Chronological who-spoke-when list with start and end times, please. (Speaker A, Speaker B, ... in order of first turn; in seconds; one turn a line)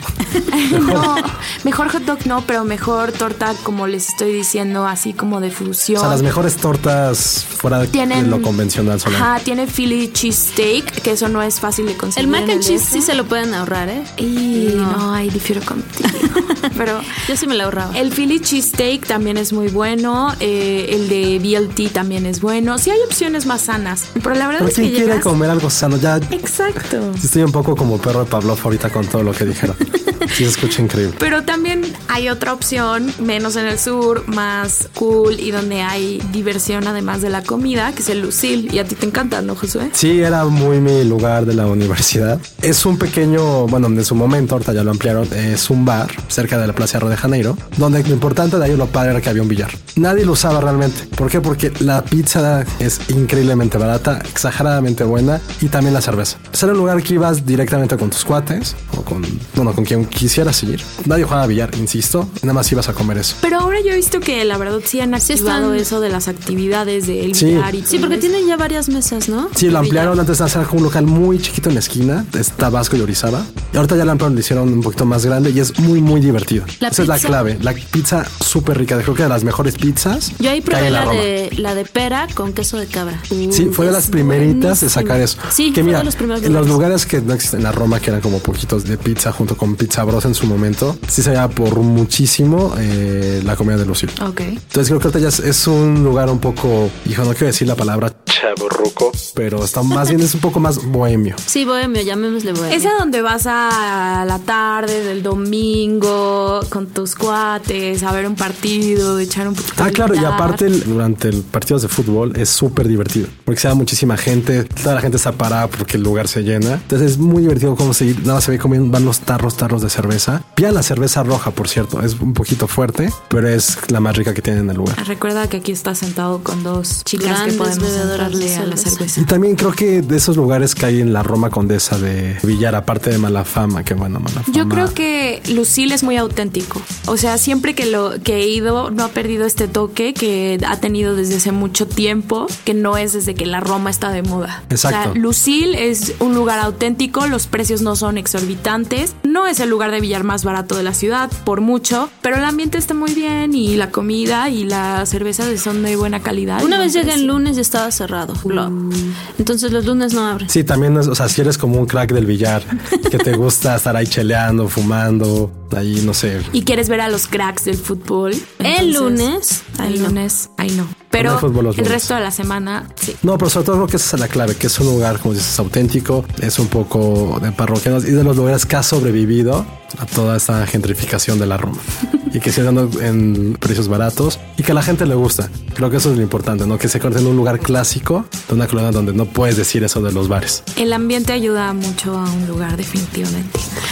Speaker A: 0.5-6.2
Speaker B: 0.7-1.1
Speaker B: 6.0-9.3
Speaker A: 7.9-8.5
Speaker A: 9.1-13.1
Speaker C: 12.2-15.0
Speaker A: 14.2-17.1
Speaker C: 16.1-18.0
Speaker A: 17.9-25.3
Speaker B: 24.6-26.3
Speaker A: 26.3-27.2
Speaker B: 27.2-31.2
Speaker A: 31.2-39.9
Speaker B: 39.9-63.4
Speaker A: 63.4-68.3
Speaker C: 65.2-65.9
Speaker B: 67.3-67.7
Speaker C: 67.8-70.2
Speaker B: 69.5-81.3
Speaker C: 76.8-77.5
Speaker C: 80.4-86.8
Speaker B: 83.5-94.1
Speaker A: 94.2-94.6
Speaker B: 94.7-101.4
Speaker C: 101.5-102.9
Speaker A: 102.7-110.6
Speaker B: 109.8-125.0
Speaker A: 125.0-129.2
Speaker C: 127.1-129.1
Speaker B: 129.2-134.9
Speaker A: 134.5-157.4
Speaker B: 144.7-145.2
Speaker C: 156.6-160.5
Speaker A: 158.4-159.2
Speaker B: 160.5-166.5
Speaker A: 166.5-173.2
Speaker C: 168.6-170.2
Speaker B: 171.2-172.1
Speaker B: 173.2-190.6
Speaker A: 190.8-193.7